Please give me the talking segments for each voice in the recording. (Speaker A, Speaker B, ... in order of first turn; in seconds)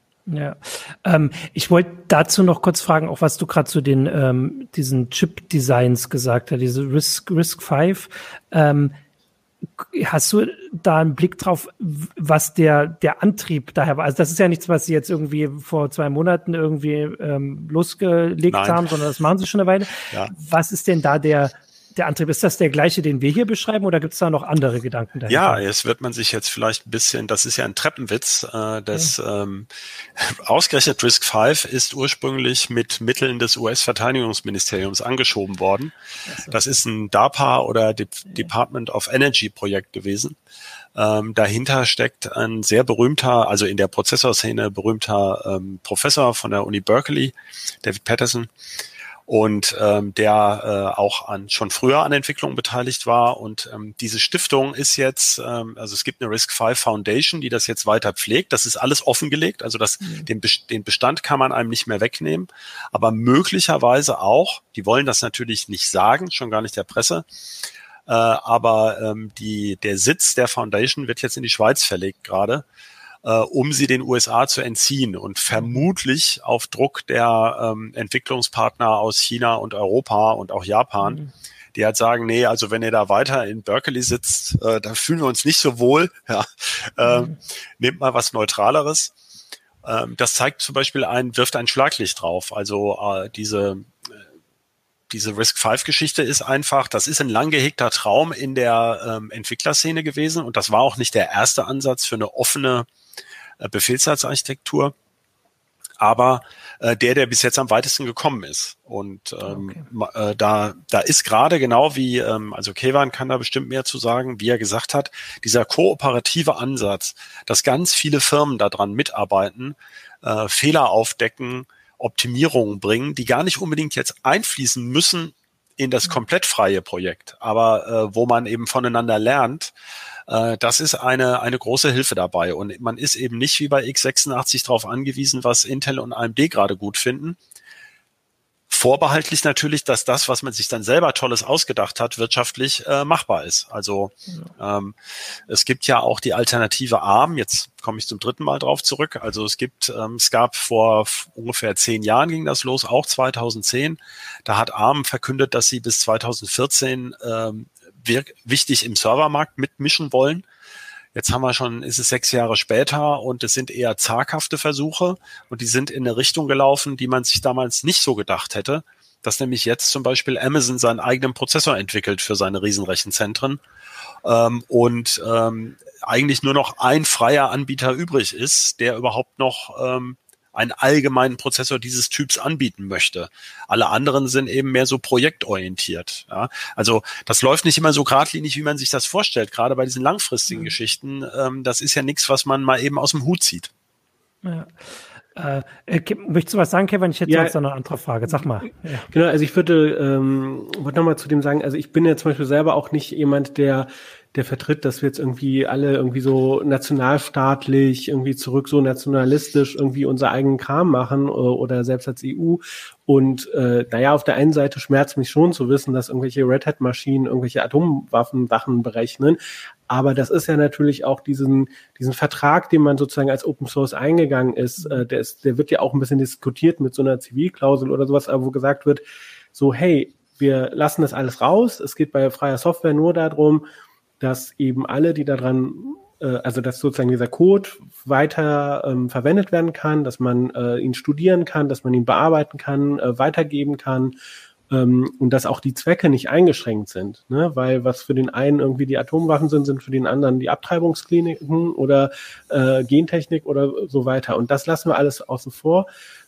Speaker A: 0.3-8.9, 9.8-25.6, 36.3-36.5, 60.0-60.3, 75.5-75.8, 81.0-81.3, 87.0-87.4, 109.5-109.8, 194.4-199.1
Speaker B: 18.5-18.8, 25.3-35.9, 36.5-40.4, 41.0-48.5, 49.3-67.3, 68.1-72.7, 73.2-81.2, 81.8-89.1, 89.8-94.1, 95.1-102.9, 103.6-104.9, 106.0-129.7, 130.3-137.4, 138.7-144.9, 145.5-160.4, 161.2-173.6, 174.2-193.7
Speaker C: 197.3-197.6, 198.4-219.4, 219.9-229.0, 229.5-233.6, 234.2-244.2, 244.7-255.9